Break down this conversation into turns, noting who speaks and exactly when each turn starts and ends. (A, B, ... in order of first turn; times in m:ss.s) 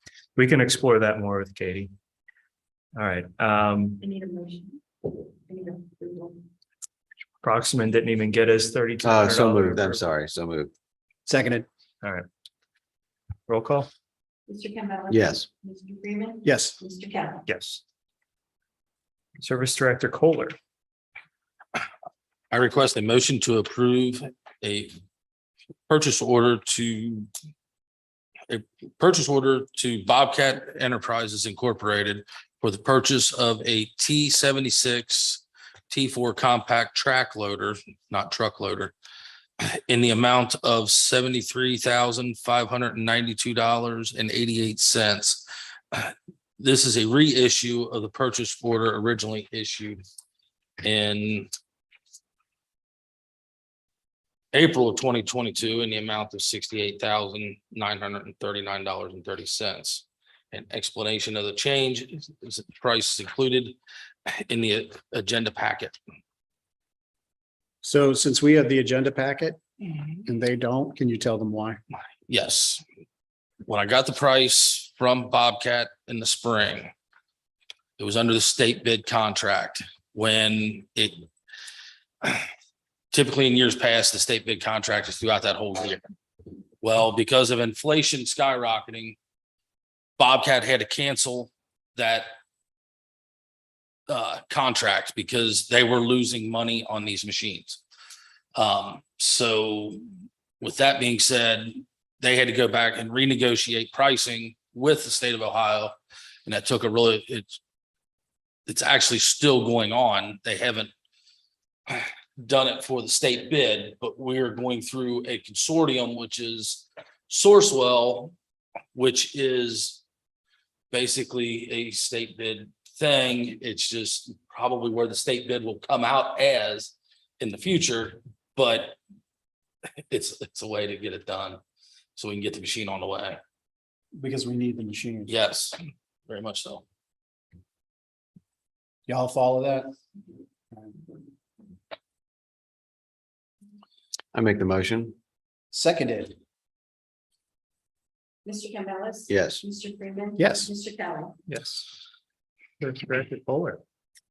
0:00.4-0:01.9 A
0:03.0-0:04.0 A
0:04.0-0:06.4 B
0:07.4-0:10.0 A
0:09.0-0:10.7 C
0:11.3-0:11.7 D
0:13.5-0:13.9 A
0:14.5-0:17.4 B
0:15.1-0:15.5 C
0:16.4-0:16.8 D
0:17.5-0:17.8 A
0:19.4-0:20.6 A
0:22.5-0:24.9 E
0:25.9-0:27.3 E
0:28.5-0:38.9 E
0:39.6-0:50.0 E
0:50.8-0:51.5 E
0:54.5-1:03.8 E
1:04.4-1:06.0 E
1:07.8-1:09.6 D
1:10.2-1:11.8 D
1:12.3-1:12.8 E
1:13.7-1:16.9 E
1:18.0-1:21.2 E
1:22.2-1:22.5 E
1:23.1-1:26.0 E
1:26.8-1:29.2 E
1:30.2-1:32.3 E
1:34.1-1:37.8 E
1:38.6-1:40.0 E
1:40.6-1:47.6 E
1:48.7-1:50.9 E
1:51.9-1:58.3 E
1:58.9-2:00.0 E
2:00.9-2:09.0 E
2:10.1-2:11.6 E
2:12.2-2:13.4 E
2:14.2-2:15.4 D
2:15.3-2:15.8 E
2:16.3-2:16.8 E
2:19.1-2:19.9 D
2:24.3-2:25.2 C
2:25.7-2:26.4 D
2:28.4-2:31.4 B
2:29.3-2:29.6 C
2:30.4-2:30.8 D
2:31.5-2:31.9 A
2:32.8-2:33.8 A